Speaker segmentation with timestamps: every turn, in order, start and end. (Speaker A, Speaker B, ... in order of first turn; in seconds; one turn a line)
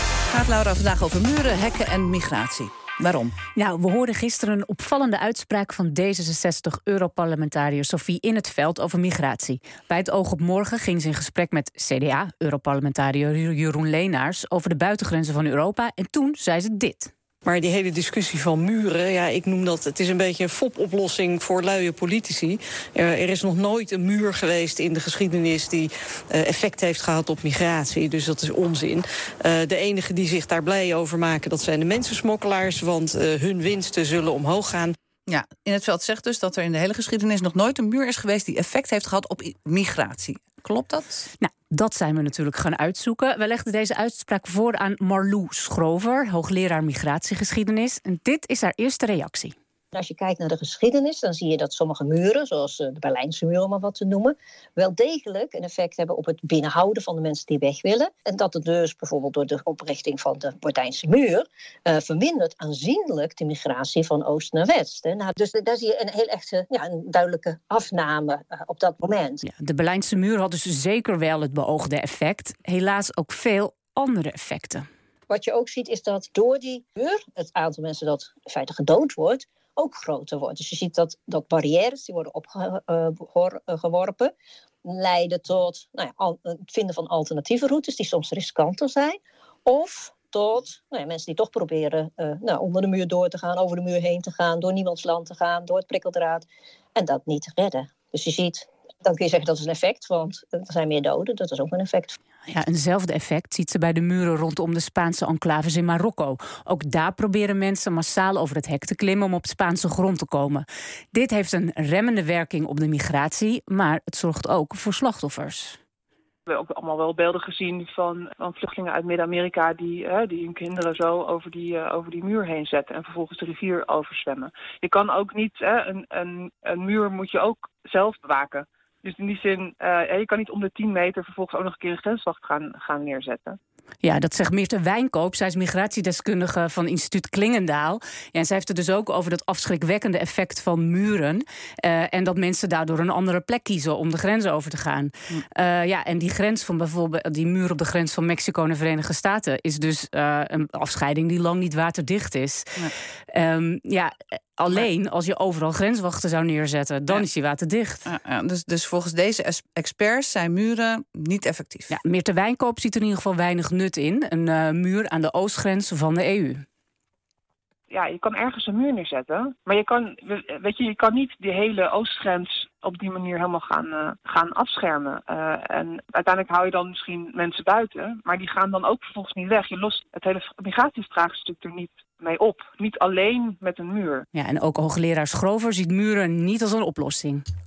Speaker A: 0.3-3.3
Speaker B: 3.5-17.1
Speaker C: 17.4-35.0
Speaker A: 35.3-41.3
Speaker B: 41.4-49.5
Speaker D: 49.9-69.4
Speaker B: 69.4-74.9
Speaker D: 75.3-84.3
Speaker D: 84.8-102.2
Speaker B: 102.5-115.8
Speaker E: 116.5-133.6
Speaker B: 134.0-158.1
Speaker A: 158.1-162.0
Speaker B: 161.9-166.7
Speaker E: 167.9-184.3
Speaker B: 184.3-187.4